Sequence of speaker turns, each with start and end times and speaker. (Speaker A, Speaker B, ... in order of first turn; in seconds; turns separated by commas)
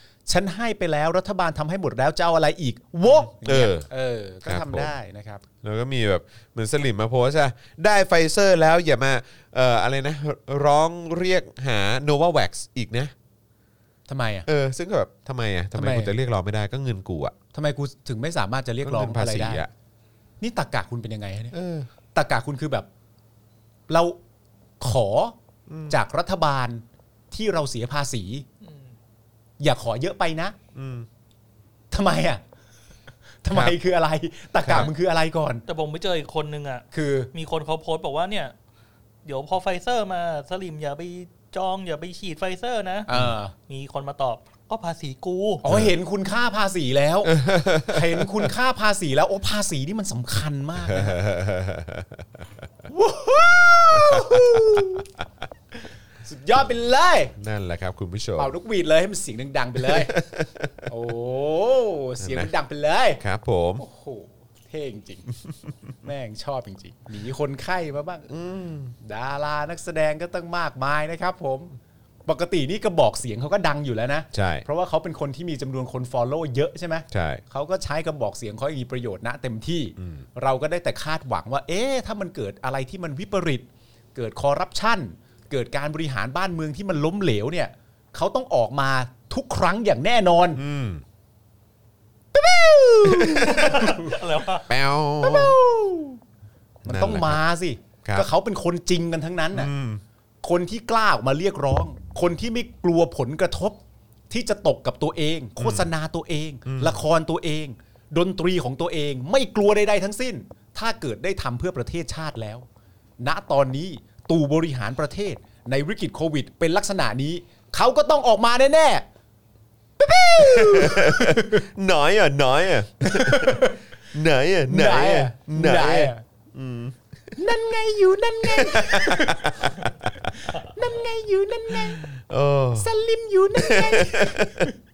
Speaker A: 0.3-5.4, Speaker B: 3.1-3.9, Speaker B: 4.5-4.9, Speaker B: 5.6-13.1, Speaker A: 14.1-14.5, Speaker B: 14.5-17.3, Speaker A: 15.8-16.1, Speaker A: 17.5-19.6, Speaker B: 18.8-19.7, Speaker A: 20.4-21.5, Speaker B: 21.5-21.9, Speaker A: 22.1-22.9, Speaker A: 23.9-24.2, Speaker A: 24.8-25.4, Speaker B: 25.7-26.0, Speaker A: 25.9-28.5, Speaker A: 29.6-30.6, Speaker B: 30.8-31.1, Speaker A: 31.9-32.4, Speaker A: 33.4-35.6, Speaker B: 33.5-33.8, Speaker B: 34.6-34.9, Speaker C: 35.7-38.5, Speaker A: 36.9-37.3, Speaker C: 39.2-43.1, Speaker A: 43.1-43.5, Speaker C: 43.7-45.6, Speaker A: 45.6-51.2, Speaker B: 47.3-48.5, Speaker B: 50.8-52.4, Speaker A: 52.9-55.1, Speaker B: 54.0-55.0, Speaker A: 56.2-57.3, Speaker B: 57.4-58.5, Speaker A: 58.4-60.2, Speaker B: 59.8-60.9, Speaker A: 60.9-63.2, Speaker B: 62.2-62.5, Speaker B: 63.2-63.8, Speaker A: 63.8-65.3, Speaker A: 66.0-68.3, Speaker B: 68.3-69.0, Speaker A: 69.0-90.6, Speaker B: 74.3-74.7, Speaker B: 77.1-77.4, Speaker B: 90.6-91.0, Speaker A: 92.3-94.2, Speaker B: 93.0-94.0, Speaker C: 93.5-94.7, Speaker B: 94.7-95.6, Speaker A: 95.2-96.2, Speaker A: 96.8-99.7, Speaker B: 96.9-97.4, Speaker B: 99.5-100.0, Speaker A: 100.4-103.8, Speaker A: 104.3-112.7, Speaker B: 105.6-105.9, Speaker B: 106.7-107.0, Speaker A: 113.2-119.0, Speaker A: 120.0-121.7, Speaker B: 120.4-127.5, Speaker A: 123.0-123.8, Speaker A: 124.7-126.2, Speaker A: 127.4-129.7, Speaker B: 128.4-130.3, Speaker A: 130.3-132.1, Speaker B: 131.7-132.9, Speaker A: 132.8-134.7, Speaker B: 133.6-134.7